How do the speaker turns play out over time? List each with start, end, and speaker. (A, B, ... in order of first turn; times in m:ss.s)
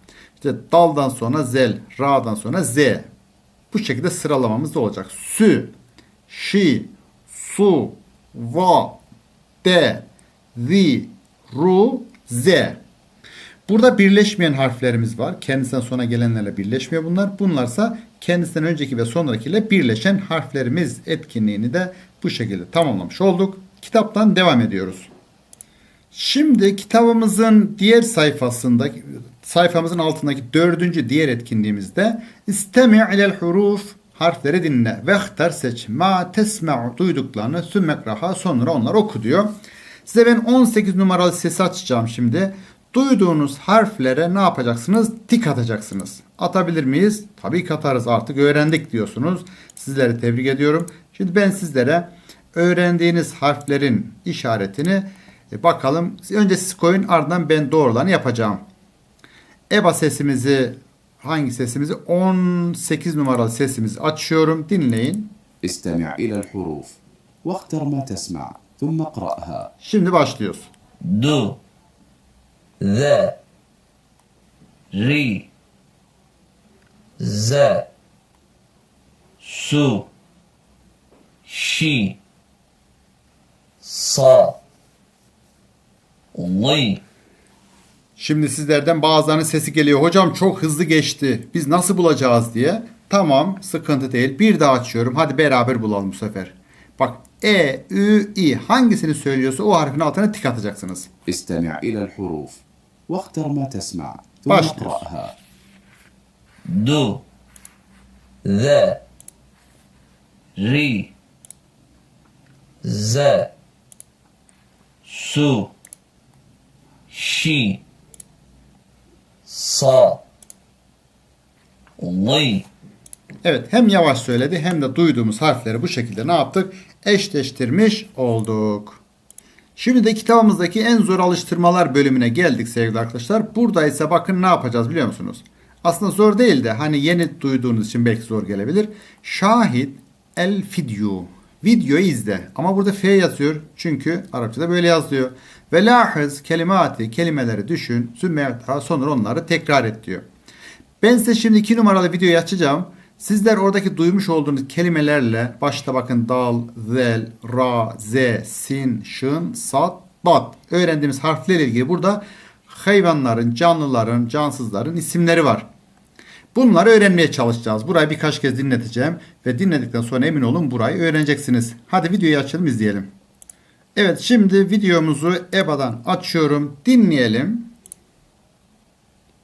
0:00.4-0:03.1 A
0:03.7-0:05.7 A
0:06.3-0:09.0 A
0:09.6-0:12.8 A
0:13.7-0:25.1 A
0:26.1-0:39.5 A
0:40.0-0:58.6 A
0:59.7-1:05.3 A
1:05.6-1:09.7 B
1:09.8-1:10.7 A
1:11.0-1:11.6 C
1:12.8-1:13.4 C
1:14.9-1:15.5 C
1:17.2-1:17.9 C
1:19.4-1:20.1 C
1:21.4-1:22.2 C
1:23.8-1:24.6 C
1:26.3-1:27.0 C
1:28.2-1:41.1 A
1:41.3-1:45.3 B
1:44.5-1:45.0 A
1:46.6-1:47.2 C
1:48.4-1:49.0 C
1:50.6-1:51.1 C
1:52.8-1:53.5 C
1:55.0-1:55.7 C
1:57.1-1:57.8 C
1:59.5-2:00.2 C
2:02.0-2:02.7 C
2:03.4-2:09.0 A
2:09.8-2:30.2 A
2:31.0-2:45.7 A
2:46.5-2:53.1 A
2:53.9-2:57.7 A